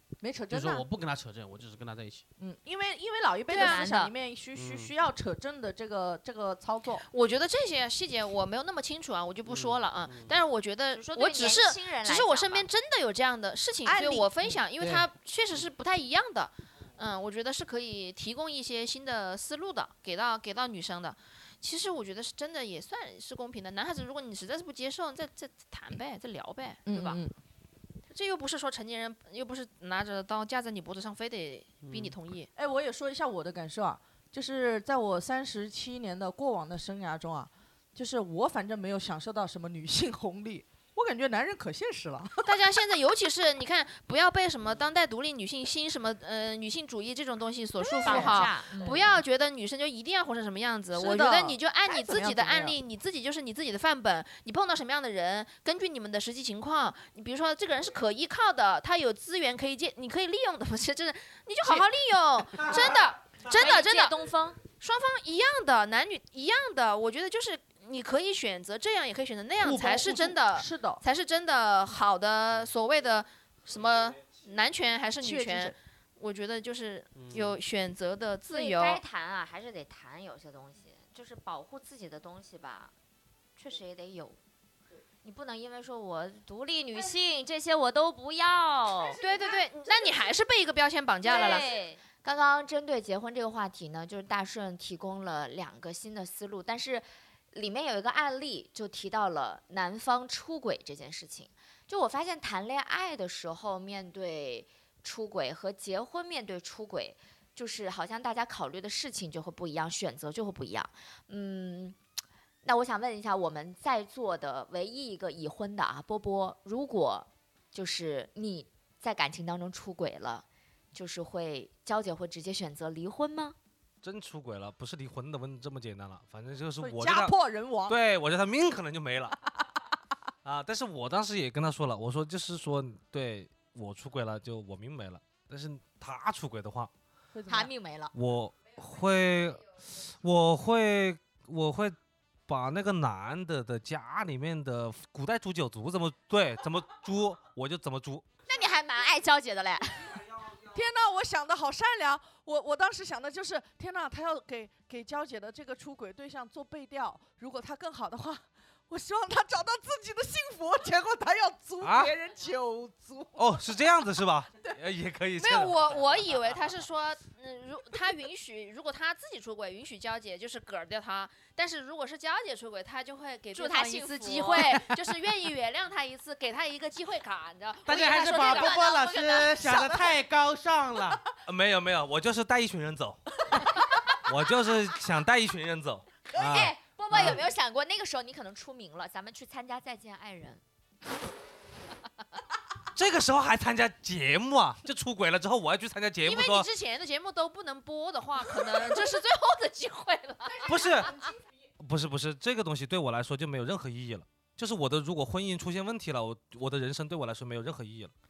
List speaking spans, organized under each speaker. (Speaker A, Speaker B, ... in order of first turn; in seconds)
Speaker A: 0.2-0.8, 2.4-7.0, 13.9-14.3, 26.9-27.3, 32.6-42.5, 48.0-48.5, 50.9-52.8, 69.6-71.0, 75.2-75.8, 126.8-128.0, 137.3-137.7, 150.7-163.6
Speaker B: 0.5-2.2, 4.5-4.9, 9.5-10.3, 14.8-15.1, 31.8-32.2, 77.2-77.6, 177.8-181.2, 187.1-187.4
Speaker C: 3.5-4.1, 7.1-27.2, 28.1-32.5, 42.4-79.0, 89.2-91.7, 165.4-180.0, 196.2-201.1
Speaker D: 3.6-4.1, 10.9-12.7, 47.8-49.2, 63.5-64.6, 78.5-82.9, 83.6-84.4, 85.2-89.2, 91.2-112.0, 112.6-123.6, 137.5-138.1, 148.5-150.3, 173.5-174.9, 178.3-179.6, 186.3-190.6
Speaker E: 62.6-63.0, 124.0-127.3, 127.9-129.4, 130.4-136.9, 138.1-148.3, 161.8-162.1, 163.4-165.8, 181.5-183.6, 184.2-187.4, 192.9-196.7, 200.7-201.2, 201.8-208.1